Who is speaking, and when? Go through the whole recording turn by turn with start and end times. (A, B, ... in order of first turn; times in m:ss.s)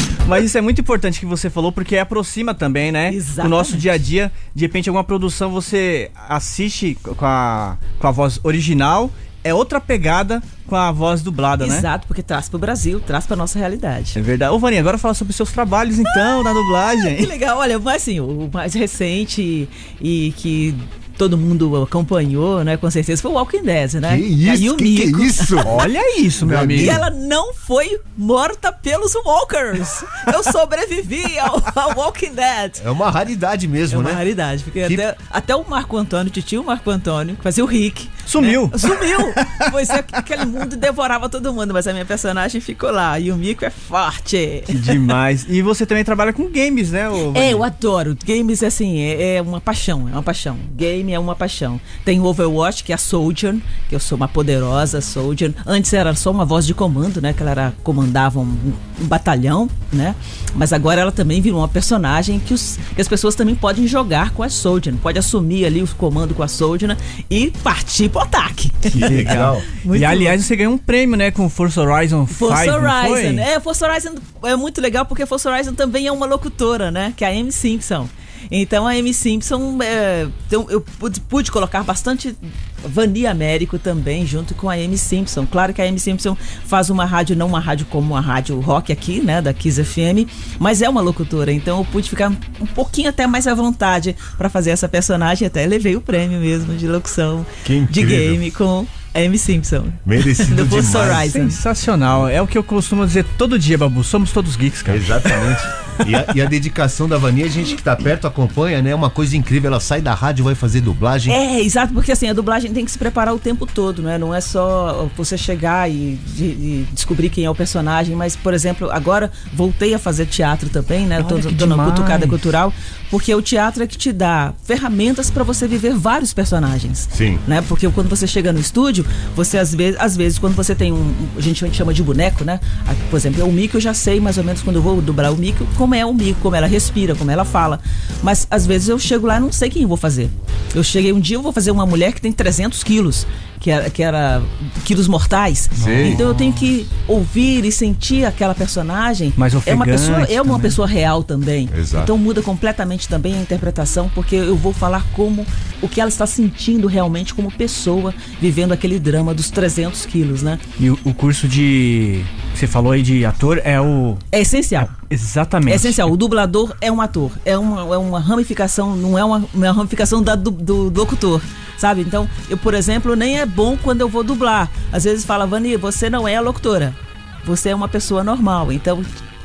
0:00.2-0:11.9 A
0:03.1-0:03.9 B
0:11.6-0:14.2 B
0:14.2-0:17.3 A
0:17.0-0:25.8 B
0:24.1-0:25.8 C
0:25.6-0:27.0 A
0:26.4-0:27.0 C
0:26.8-0:32.8 B
0:32.8-0:34.2 C
0:33.9-0:45.0 B
0:38.3-0:39.6 A
0:44.7-0:47.6 A
0:47.3-1:10.4 B
1:08.9-1:13.5 A
1:09.0-1:09.7 C
1:12.3-1:41.6 B
1:37.6-1:38.4 C
1:40.0-1:41.3 C
1:41.2-1:45.6 A
1:44.9-1:51.4 C
1:51.3-2:40.6 B
2:01.2-2:02.4 A
2:07.1-2:07.4 C
2:25.8-2:26.2 C
2:25.8-2:26.2 A
2:29.4-2:30.8 A
2:31.7-2:32.1 C
2:40.8-2:44.2 A
2:44.3-2:44.9 B
2:44.8-2:46.1 A
2:45.7-2:59.1 B